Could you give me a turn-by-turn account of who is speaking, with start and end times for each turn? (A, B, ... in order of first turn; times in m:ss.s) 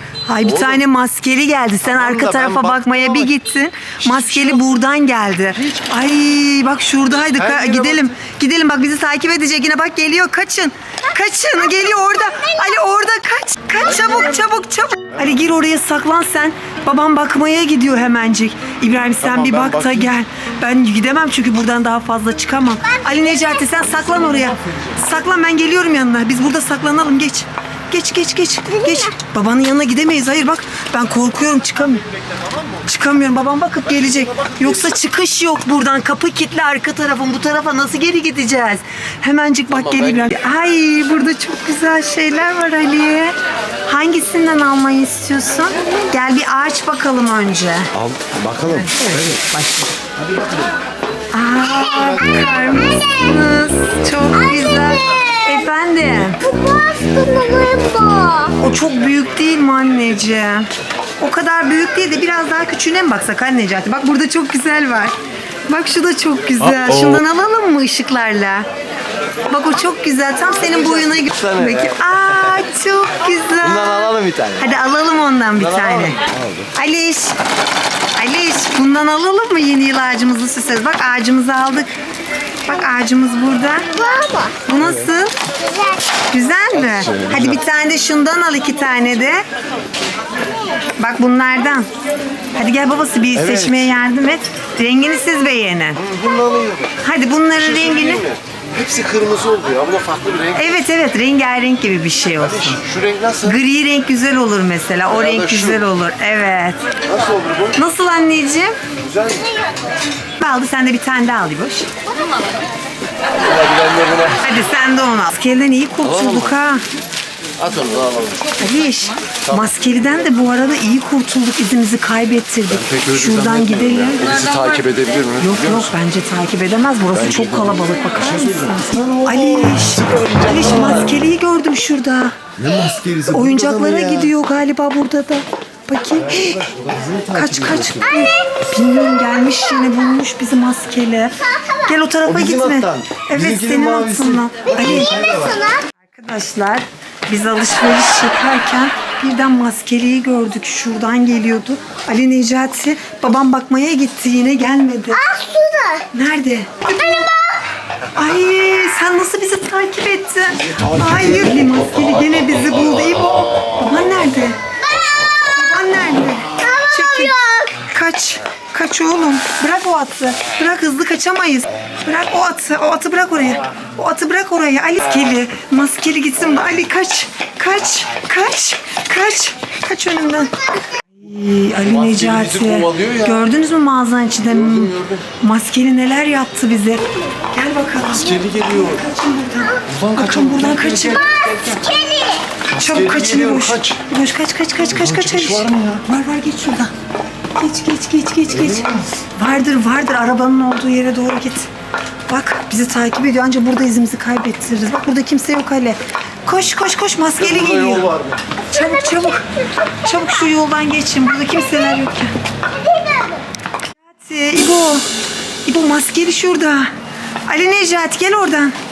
0:00.2-0:32.0 A
0:00.4-0:00.8 B
0:01.8-0:03.3 B
0:04.0-0:04.7 B
0:07.3-0:08.1 B
0:11.8-0:12.8 C
0:19.2-0:20.1 B
0:22.9-0:23.8 C
0:24.0-0:24.3 B
0:28.7-0:29.1 C
0:32.3-0:32.8 B
0:32.8-0:43.3 A
0:34.3-0:34.6 B
0:39.7-0:40.3 B
0:43.8-0:47.9 A
0:48.0-0:49.4 B
0:48.6-0:49.9 A
0:51.3-0:56.4 A
0:54.3-0:55.0 C
0:56.4-0:58.5 C
0:58.6-1:00.7 A
1:01.2-1:05.2 A
1:05.7-1:08.6 A
1:06.7-1:07.2 B
1:09.5-1:16.2 A
1:10.6-1:12.1 B
1:13.6-1:14.7 B
1:15.6-1:16.7 B
1:16.7-1:17.4 A
1:18.2-1:21.9 A
1:22.6-1:23.9 A
1:23.9-1:24.6 C
1:24.6-1:25.3 A
1:25.6-1:26.0 C
1:26.3-1:29.4 A
1:26.8-1:27.5 B
1:31.0-1:31.9 A
1:32.5-1:36.0 A
1:33.3-1:33.9 B
1:36.0-1:37.0 B
1:37.0-1:38.2 A
1:37.6-1:40.7 B
1:40.6-1:42.8 A
1:42.4-1:43.6 B
1:43.4-1:46.8 A
1:45.1-1:45.8 B
1:47.1-1:47.8 B
1:47.7-1:48.8 A
1:49.0-1:49.5 B
1:50.4-1:51.9 A
1:53.2-1:54.4 B
1:54.4-1:56.8 A
1:56.0-1:56.5 B
1:57.6-1:58.5 B
1:58.6-2:04.7 A
2:02.7-2:05.9 B
2:05.4-2:12.4 A
2:07.1-2:11.2 B
2:12.6-2:14.3 B
2:13.3-2:16.7 A
2:16.2-2:18.2 B
2:17.3-2:25.2 A
2:18.0-2:18.4 C
2:21.4-2:21.9 C
2:22.2-2:25.7 B
2:24.7-2:25.9 C
2:26.0-2:35.2 A
2:35.1-2:36.1 C
2:36.1-2:37.3 A
2:37.0-2:37.5 C
2:38.1-2:44.6 A
2:40.8-2:41.5 B
2:44.8-2:45.6 C
2:45.5-3:00.5 A
2:46.6-2:47.8 C
3:01.1-3:11.4 A
3:01.8-3:03.4 B
3:04.5-3:05.2 B
3:08.1-3:09.0 B
3:09.9-3:11.8 B
3:11.7-3:12.4 C
3:12.7-3:16.9 A
3:12.7-3:14.0 B
3:14.9-3:16.0 B
3:17.5-3:21.7 A
3:18.5-3:19.0 B
3:22.3-3:28.1 A
3:27.4-3:28.4 B
3:28.7-3:29.4 A
3:30.0-3:32.3 A
3:32.8-3:33.4 C
3:34.0-3:35.0 A
3:35.6-3:36.9 A
3:37.5-3:38.8 A